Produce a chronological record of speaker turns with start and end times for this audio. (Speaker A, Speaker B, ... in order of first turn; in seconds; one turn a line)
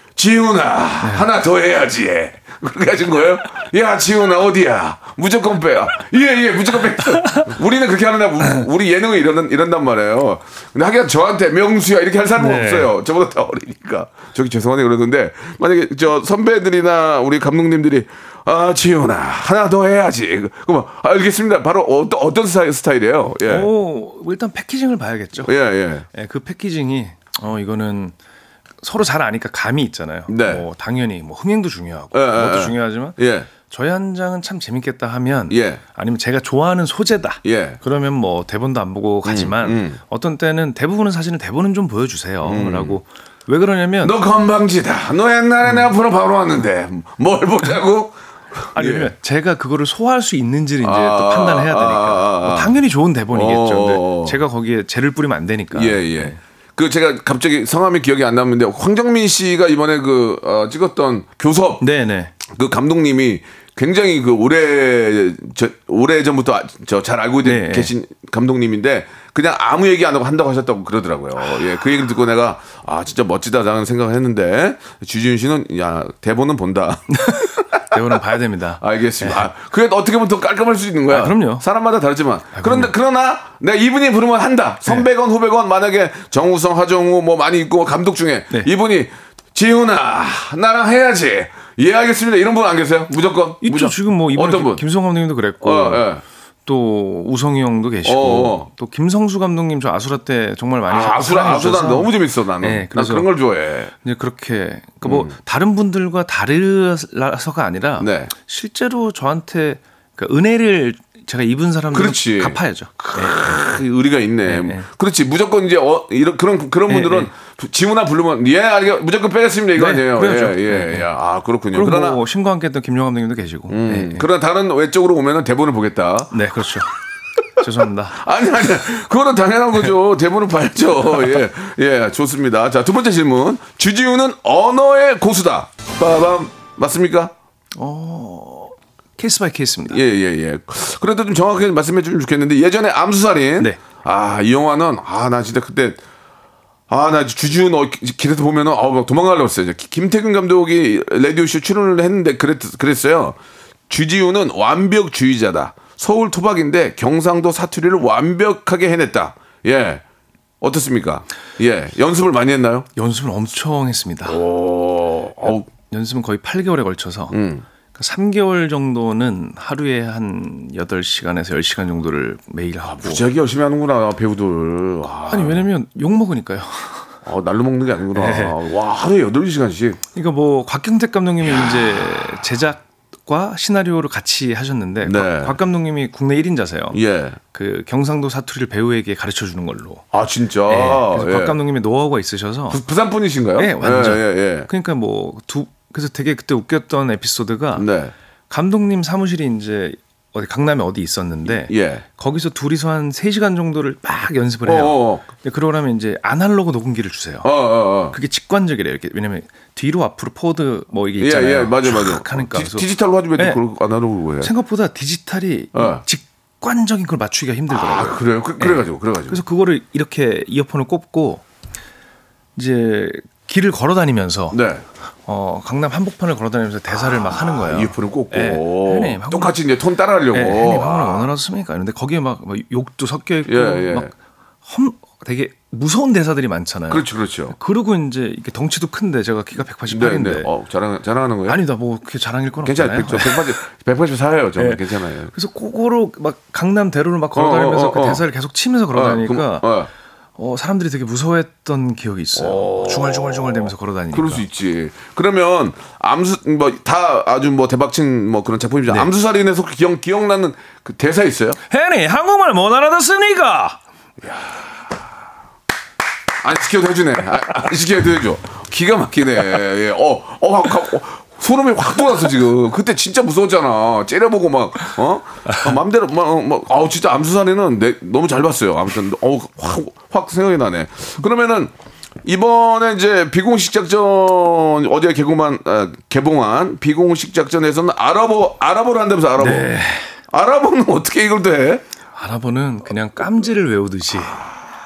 Speaker A: 0.1-23.7
Speaker B: 1.0-1.3
Speaker B: 7.1-7.5
Speaker B: 12.4-12.9
Speaker B: 23.4-25.5
Speaker A: 25.4-26.1
Speaker B: 26.1-28.1
Speaker B: 28.8-44.2
Speaker A: 30.3-30.6
Speaker A: 32.1-33.5
Speaker A: 35.5-35.8
Speaker A: 37.4-37.8
Speaker A: 39.2-40.0
Speaker A: 42.4-43.0
Speaker A: 44.0-49.1
Speaker B: 48.7-56.4
Speaker A: 50.8-52.7
Speaker A: 53.3-54.4
Speaker A: 55.7-61.8
Speaker B: 61.8-62.3
Speaker A: 62.5-77.9
Speaker B: 67.4-67.9
Speaker B: 77.1-79.5
Speaker A: 78.8-94.8
Speaker B: 81.1-81.6
Speaker B: 82.5-82.9
Speaker B: 93.6-96.0
Speaker A: 95.6-96.2
Speaker B: 96.7-103.3
Speaker A: 98.0-98.7
Speaker A: 100.9-103.9
Speaker B: 104.0-113.4
Speaker A: 105.0-105.3
Speaker A: 108.0-108.3
Speaker A: 111.9-122.2
Speaker B: 114.5-114.9
Speaker B: 116.9-117.3
Speaker B: 119.8-121.1
Speaker B: 121.7-124.3
Speaker A: 123.7-126.3
Speaker B: 126.3-126.9
Speaker B: 127.6-128.2
Speaker A: 128.1-137.3
Speaker B: 137.8-140.0
Speaker A: 139.9-146.0
Speaker A: 146.9-153.4
Speaker A: 153.9-160.0
Speaker A: 160.6-162.9
Speaker B: 162.9-164.4
Speaker A: 164.2-165.7
Speaker B: 165.7-167.4
Speaker A: 167.3-167.6
Speaker B: 167.9-173.2
Speaker A: 172.8-175.6
Speaker B: 175.3-177.1
Speaker A: 177.2-180.0
Speaker B: 178.1-178.6
Speaker B: 180.1-187.0
Speaker A: 185.0-185.6
Speaker A: 186.9-187.4
Speaker B: 187.5-190.1
Speaker A: 190.1-191.6
Speaker B: 190.7-192.8
Speaker A: 192.7-194.7
Speaker B: 193.6-197.9
Speaker A: 197.8-198.1
Speaker B: 198.5-207.5
Speaker A: 201.6-202.0
Speaker A: 204.6-205.2
Speaker A: 207.4-208.2
Speaker B: 208.1-213.6
Speaker A: 211.2-214.5
Speaker B: 214.4-221.4
Speaker A: 215.7-216.0
Speaker A: 217.7-219.4
Speaker B: 222.6-224.6
Speaker A: 224.5-224.8
Speaker B: 225.2-229.6
Speaker A: 227.4-231.3
Speaker B: 230.3-234.1
Speaker A: 233.4-234.1
Speaker B: 234.6-240.5
Speaker A: 236.9-237.5
Speaker A: 239.9-241.6
Speaker B: 241.5-243.6
Speaker A: 242.6-245.3
Speaker B: 244.6-249.7
Speaker A: 247.3-248.2
Speaker A: 248.9-249.9
Speaker B: 250.3-254.4
Speaker A: 252.3-253.6
Speaker A: 254.1-261.6
Speaker B: 261.7-263.8
Speaker A: 266.4-281.7
Speaker A: 282.2-289.7
Speaker B: 289.4-290.1
Speaker A: 290.3-291.8
Speaker B: 292.1-294.4